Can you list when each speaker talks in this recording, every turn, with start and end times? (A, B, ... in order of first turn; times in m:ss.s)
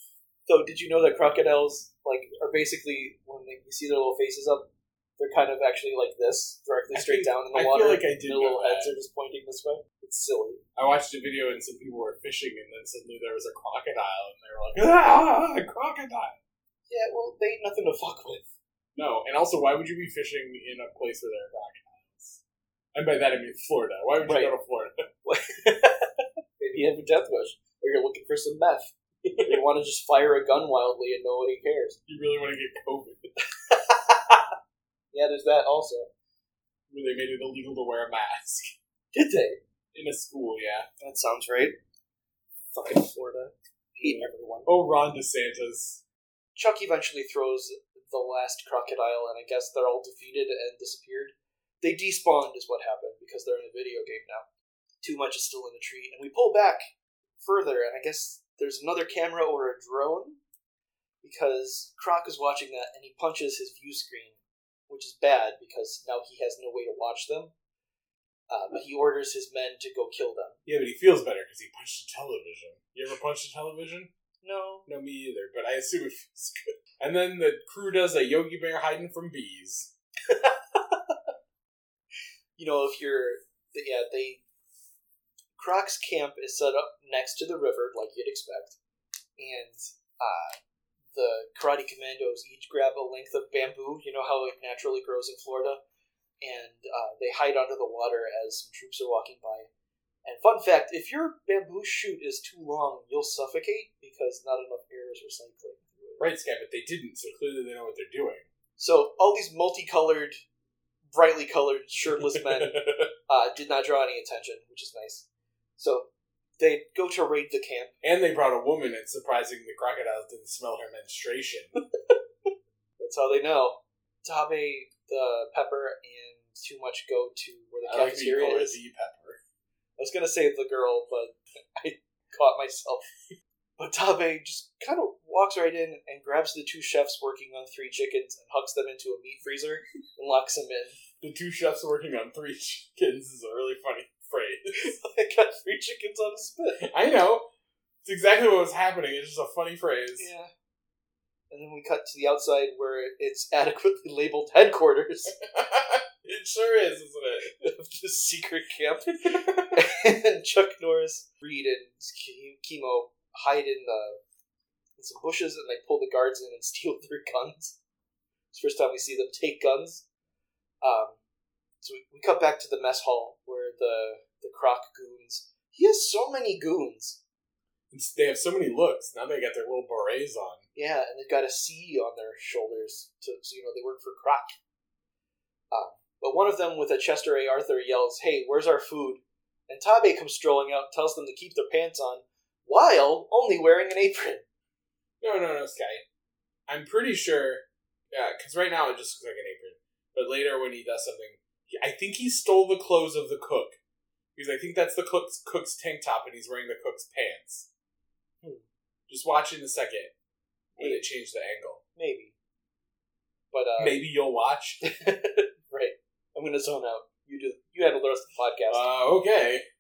0:00.5-0:10.6 A
0:06.9-0:09.0 B
0:10.8-0:16.4 B
0:16.9-0:18.5 A
0:18.9-0:22.4 B
0:22.9-0:25.1 B
0:24.2-0:24.6 A
0:25.2-0:32.0 A
0:29.2-0:29.6 B
0:32.1-0:33.3 B
0:33.6-0:34.5 A
0:35.1-0:36.1 A
0:36.9-0:38.7 B
0:39.1-0:39.6 A
0:39.9-0:40.9 B
0:41.0-0:41.8 A
0:42.7-0:44.7 A
0:44.0-0:46.0 B
0:46.6-0:54.4 A
0:55.0-0:56.9 A
0:57.4-1:00.4 A
1:01.2-1:04.4 A
1:04.9-1:07.5 A
1:08.5-1:10.6 A
1:10.6-1:14.1 B
1:14.4-1:14.9 A
1:14.9-1:19.9 B
1:20.3-1:21.2 A
1:22.6-1:24.4 A
1:25.6-1:28.8 A
1:29.4-1:30.6 A
1:31.1-1:35.8 A
1:36.4-1:39.7 A
1:40.2-1:46.2 A
1:46.2-1:48.4 B
1:48.8-1:50.4 A
1:51.1-1:55.3 A
1:52.2-1:53.1 B
1:55.8-1:57.9 A
1:58.0-2:01.8 B
2:03.0-2:08.8 A
2:07.8-2:09.4 B
2:10.0-2:13.1 A
2:13.8-2:21.0 A
2:21.2-2:25.0 B
2:24.7-2:26.9 A
2:26.8-2:27.5 B
2:28.0-2:30.3 B
2:30.2-2:30.5 A
2:31.5-2:35.4 A
2:35.4-2:37.5 B
2:37.6-2:44.2 A
2:39.3-2:39.8 B
2:45.0-2:47.8 A
2:48.5-2:50.0 A
2:50.8-2:51.2 A
2:51.8-2:57.2 A
2:57.9-3:00.6 B
3:00.8-3:04.6 A
3:05.7-3:14.4 A
3:15.2-3:16.0 B
3:16.7-3:23.8 B
3:24.4-3:27.7 B
3:29.1-3:30.1 B
3:30.8-3:31.8 B
3:30.8-3:31.0 A
3:32.0-3:32.3 A
3:33.5-3:34.0 A
3:33.8-3:34.8 B
3:34.8-3:38.9 A
3:38.7-3:39.6 B